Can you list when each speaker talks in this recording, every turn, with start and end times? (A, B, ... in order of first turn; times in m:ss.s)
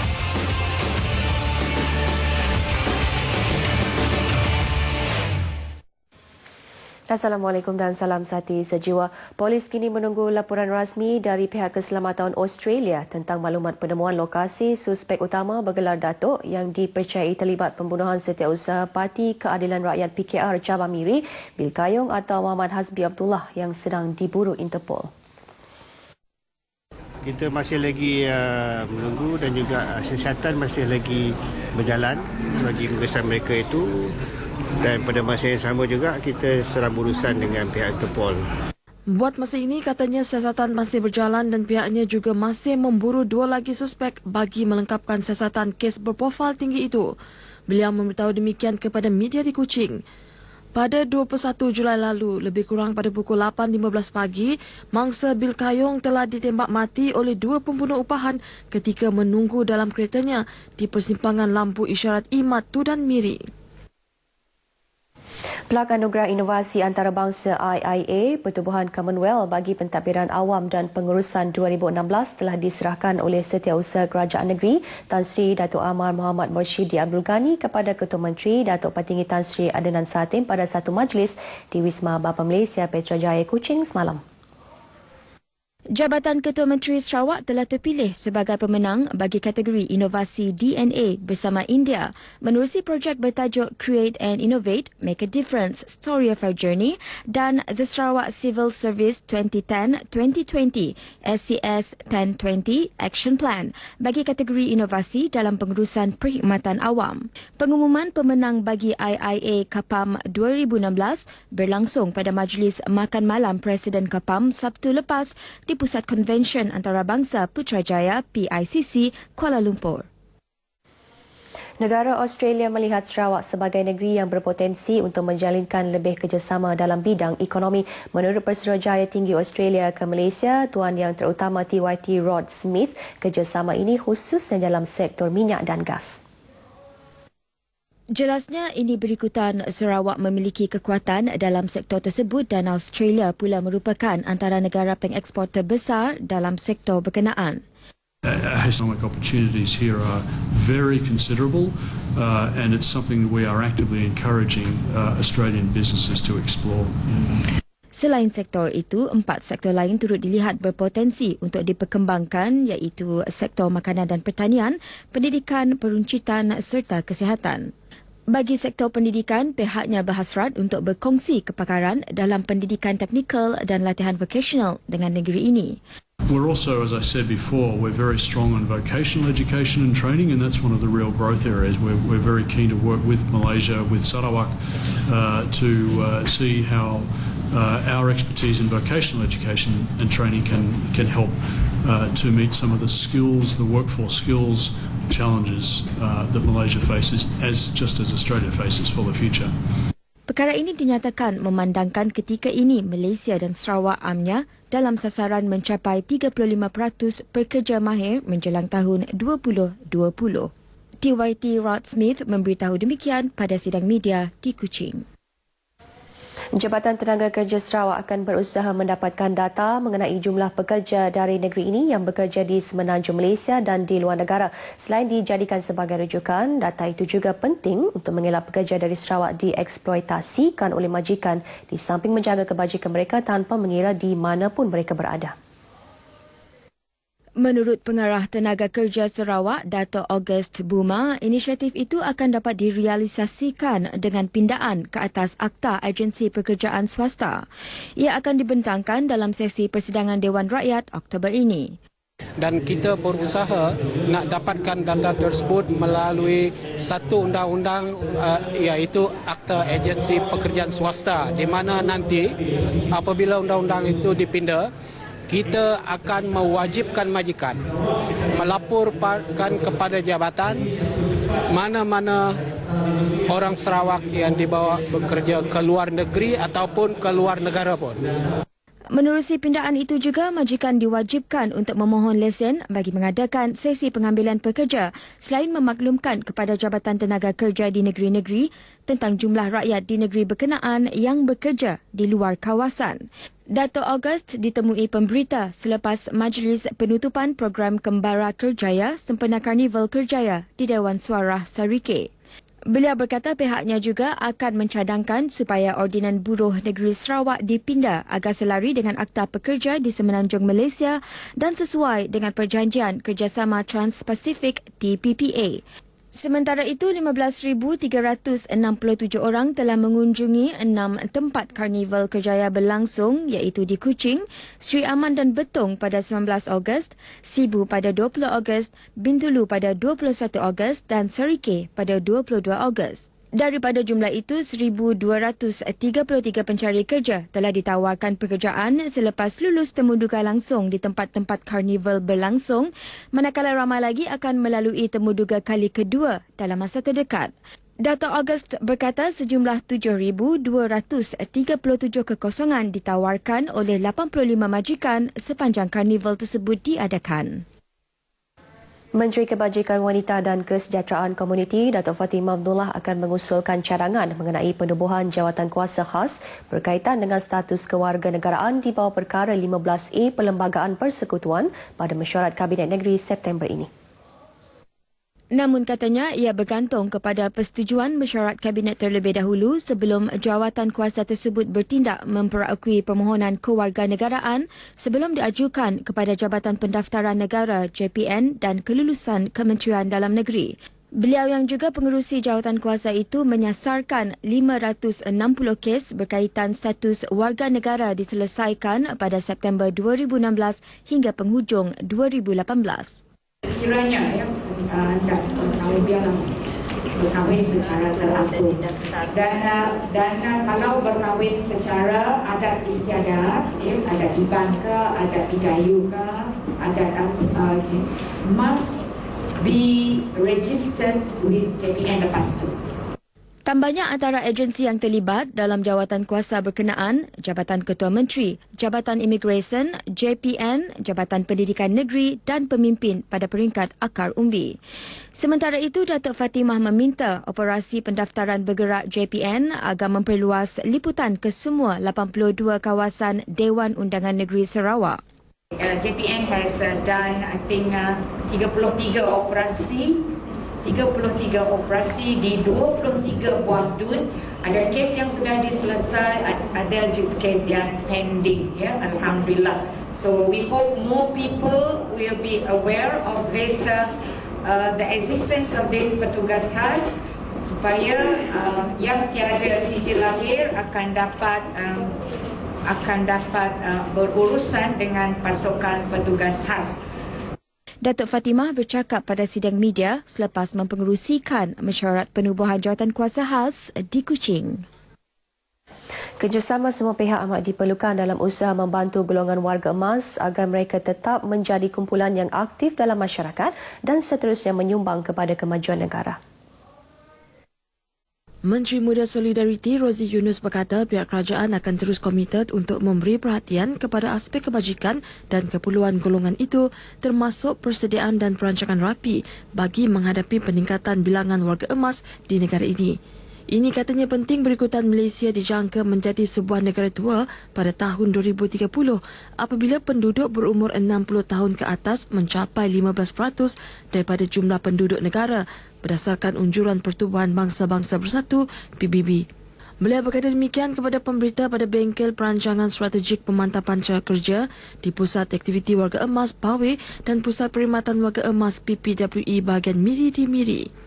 0:07.1-0:25.1 A
0:27.3-0:34.1 B
0:34.8-0:38.4 B
0:39.1-0:47.1 C
0:47.7-0:50.0 C
0:50.7-1:03.4 C
1:05.7-1:24.2 A
1:26.0-2:00.1 D
2:01.8-2:16.2 A
2:18.1-2:27.6 D
2:28.2-2:37.4 E
2:37.9-2:47.7 D
2:48.3-2:55.8 D
2:56.3-3:19.6 E
3:20.3-3:30.5 D
3:31.0-3:35.0 D
3:36.5-3:55.3 A
3:57.4-4:07.4 D
4:08.0-4:11.8 D
4:12.4-4:22.3 F
4:22.9-4:24.7 F
4:25.3-4:27.6 F
4:28.3-4:30.7 F
4:31.5-4:32.4 F
4:33.3-4:38.0 F
4:38.9-5:02.1 D
5:02.7-5:15.6 D
5:16.1-5:47.3 D
5:47.8-5:57.4 D
5:59.0-6:13.7 A
6:15.3-6:43.0 D
6:43.5-6:46.2 G
6:47.0-6:56.1 G
6:56.6-6:57.8 G
6:58.4-6:58.8 G
7:00.2-7:02.5 G
7:03.5-7:14.6 D
7:15.1-7:25.0 D
7:25.6-7:29.9 G
7:30.7-7:34.0 G
7:34.6-7:39.5 G
7:40.1-7:43.8 G
7:44.5-7:46.9 G
7:47.6-7:51.9 G
7:52.8-7:56.7 G
7:57.8-8:04.6 D
8:06.2-8:16.2 A
8:18.5-8:32.9 C
8:33.5-8:49.2 C
8:49.8-9:00.7 C